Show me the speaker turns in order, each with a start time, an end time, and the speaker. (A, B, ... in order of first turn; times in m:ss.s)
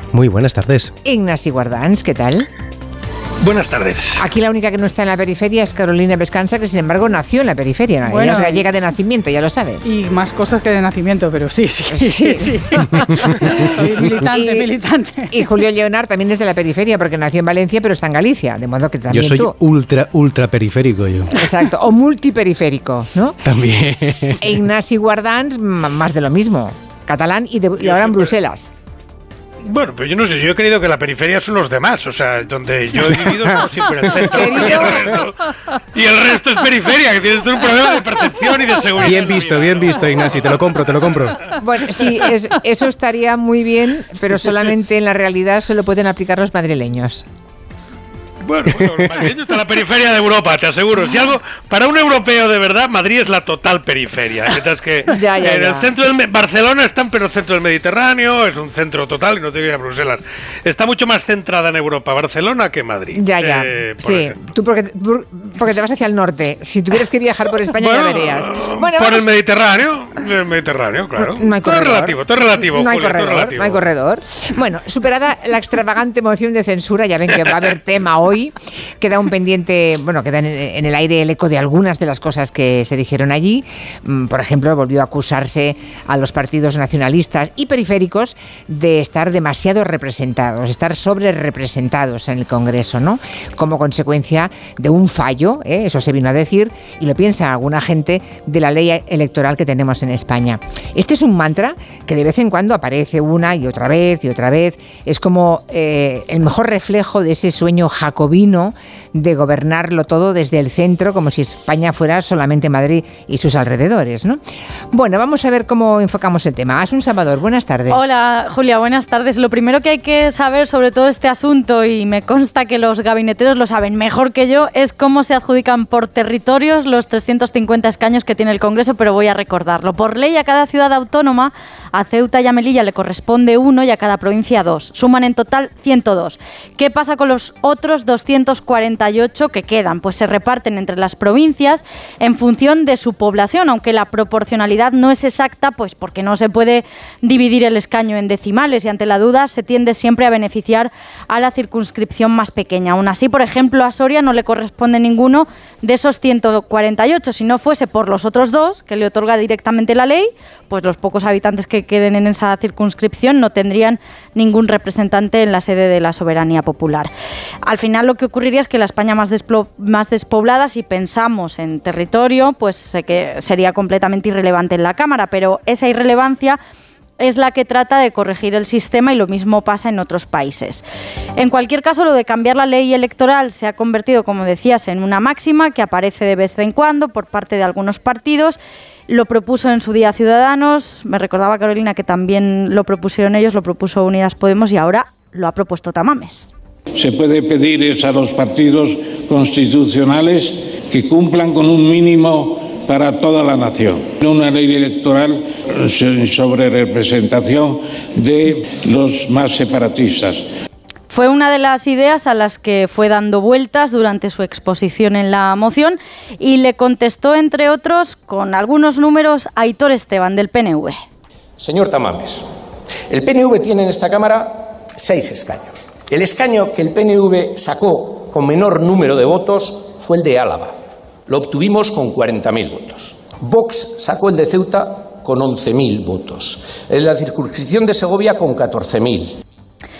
0:00.1-0:01.0 A
0:01.0-0:02.5 B
0:03.4-0:04.2 C
0:04.2-0:09.8 B
0:08.1-0:08.6 D
0:09.8-0:15.5 D
0:11.9-0:14.7 B
0:15.3-0:19.5 B
0:19.1-0:21.5 A
0:21.3-0:23.4 B
0:23.4-0:24.5 A
0:24.4-0:28.7 B
0:27.8-0:28.3 C
0:29.7-0:40.5 C
0:34.1-0:34.5 A
0:34.3-0:35.1 B
0:39.0-0:41.6 A
0:41.6-0:47.2 B
0:48.4-1:04.4 C
0:48.8-0:49.3 A
0:55.1-0:55.9 B
1:03.1-1:09.2 B
1:07.8-1:13.8 C
1:11.2-1:58.1 B
1:57.9-2:47.1 E
2:47.6-2:56.6 E
2:57.2-3:00.8 E
3:01.4-3:16.5 E
3:17.0-3:30.4 F
3:31.1-3:41.0 E
3:41.6-3:42.5 G
3:43.1-3:50.8 G
3:51.3-3:59.3 G